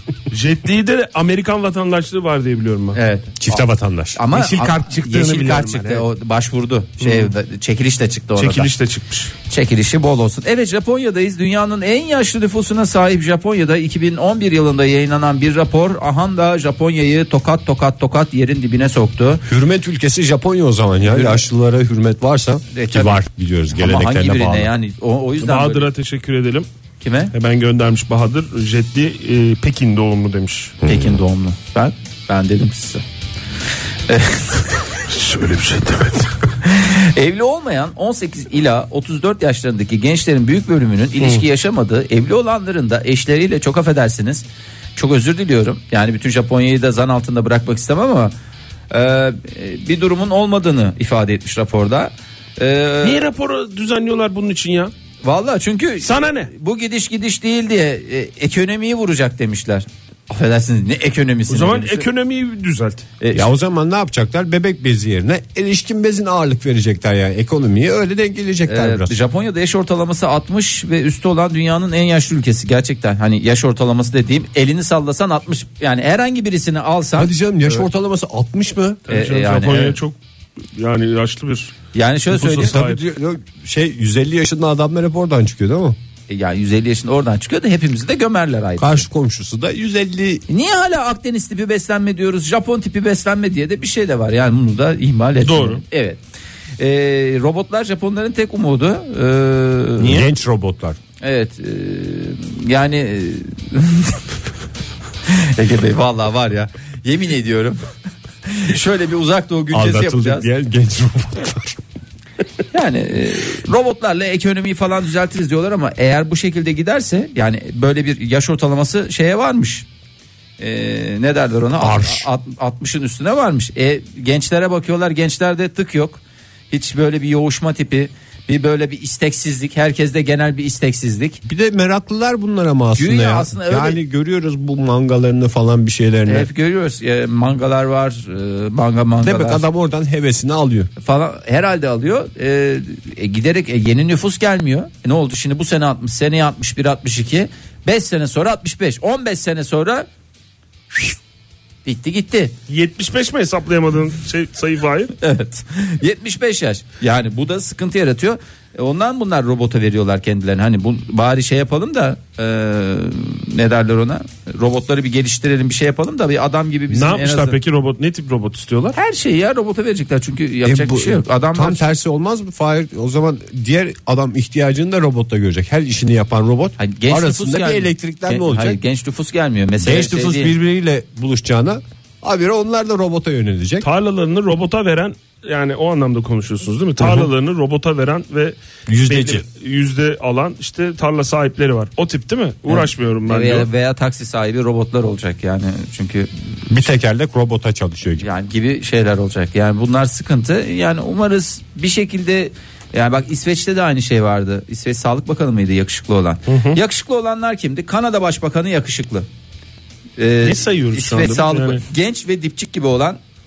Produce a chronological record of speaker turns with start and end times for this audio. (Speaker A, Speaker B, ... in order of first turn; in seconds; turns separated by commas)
Speaker A: 0.3-3.0, Speaker B: 3.0-3.6, Speaker C: 3.4-4.2, Speaker B: 4.2-8.7, Speaker A: 4.3-6.0, Speaker A: 7.0-7.3, Speaker A: 8.4-9.3, Speaker B: 9.5-19.4, Speaker C: 19.5-24.7, Speaker B: 21.0-21.4, Speaker B: 22.7-23.2, Speaker B: 23.7-25.9, Speaker A: 25.4-26.7, Speaker B: 27.0-27.3, Speaker A: 27.3-30.8, Speaker C: 30.8-31.2, Speaker B: 30.9-33.0, Speaker B: 34.1-35.0, Speaker A: 35.1-36.3, Speaker B: 36.6-48.4, Speaker B: 48.9-53.3, Speaker A: 53.0-54.9, Speaker B: 55.2-62.1, Speaker A: 56.0-56.5, Speaker A: 61.5-63.1, Speaker B: 63.2-63.5, Speaker C: 63.3-69.2, Speaker B: 68.7-77.3, Speaker C: 77.2-79.0, Speaker A: 79.1-80.2, Speaker B: 79.1-80.0, Speaker A: 80.8-81.8, Speaker B: 81.9-82.8, Speaker A: 82.3-83.0, Speaker C: 82.6-86.0, Speaker B: 86.3-89.1, Speaker C: 88.8-90.4, Speaker B: 90.5-96.2, Speaker A: 95.4-95.8, Speaker B: 96.8-100.3, Speaker C: 100.0-101.0, Speaker B: 101.2-104.2, Speaker B: 105.3-107.9, Speaker B: 108.5-110.5, Speaker C: 109.7-111.8, Speaker B: 112.7-119.9, Speaker B: 120.6-131.4, Speaker C: 121.8-122.3, Speaker C: 131.4-136.5, Speaker B: 132.9-134.0, Speaker B: 136.3-139.7, Speaker C: 139.2-140.9, Speaker B: 141.0-150.1, Speaker B: 151.8-152.5, Speaker A: 152.7-155.1, Speaker B: 155.2-167.6, Speaker A: 166.9-169.0, Speaker B: 168.9-171.8, Speaker C: 170.6-178.8, Speaker B: 176.8-180.6, Speaker C: 179.8-183.9, Speaker A: 183.8-193.7, Speaker C: 187.0-187.3, Speaker C: 188.9-189.4, Speaker B: 192.7-196.3, Speaker C: 196.7-198.3, Speaker B: 198.2-209.3, Speaker A: 206.5-206.8, Speaker B: 210.2-213.2, Speaker A: 210.4-211.8